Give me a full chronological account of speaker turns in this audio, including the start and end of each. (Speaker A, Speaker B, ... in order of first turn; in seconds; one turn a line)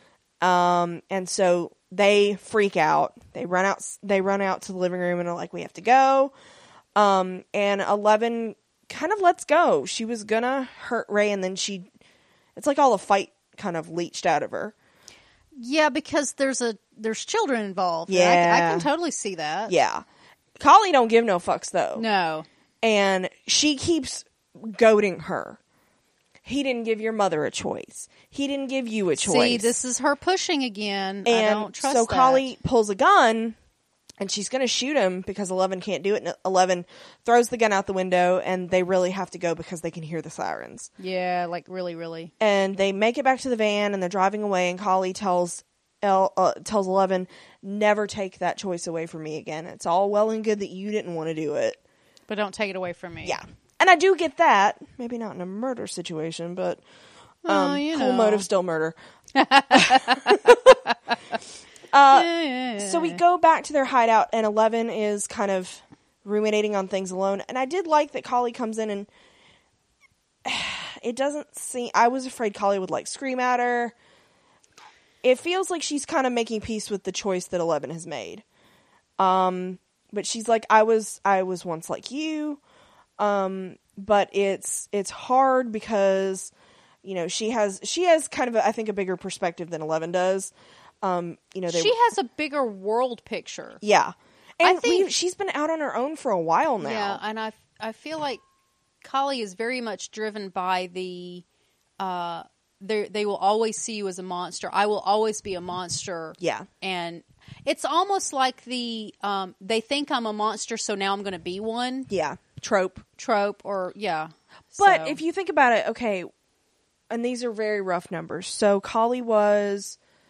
Speaker A: 0.4-6.3
Speaker A: 7.0-11.8
Speaker A: 12.6-14.7
Speaker B: 15.6-19.7
Speaker A: 18.1-18.9
Speaker A: 19.7-20.0
Speaker A: 20.6-22.0
Speaker B: 21.9-22.5
Speaker A: 22.8-25.6
Speaker A: 26.4-29.7
Speaker B: 29.2-32.5
Speaker A: 31.2-33.6
Speaker A: 34.2-40.9
Speaker B: 41.0-42.3
Speaker A: 42.4-51.8
Speaker B: 52.3-53.4
Speaker A: 53.2-56.8
Speaker A: 57.4-59.0
Speaker B: 57.5-58.5
Speaker B: 59.3-61.4
Speaker A: 59.7-60.8
Speaker A: 61.9-69.1
Speaker B: 62.1-63.2
Speaker A: 70.4-73.9
Speaker A: 75.2-78.4
Speaker A: 79.2-82.6
Speaker A: 83.2-86.5
Speaker A: 87.0-91.9
Speaker B: 91.7-93.8
Speaker A: 93.8-97.2
Speaker B: 94.6-95.1
Speaker B: 96.8-98.4
Speaker B: 99.0-101.4
Speaker B: 102.0-112.1
Speaker A: 106.4-106.7
Speaker A: 112.1-113.0
Speaker B: 113.2-115.2
Speaker A: 114.8-116.3
Speaker A: 117.1-120.0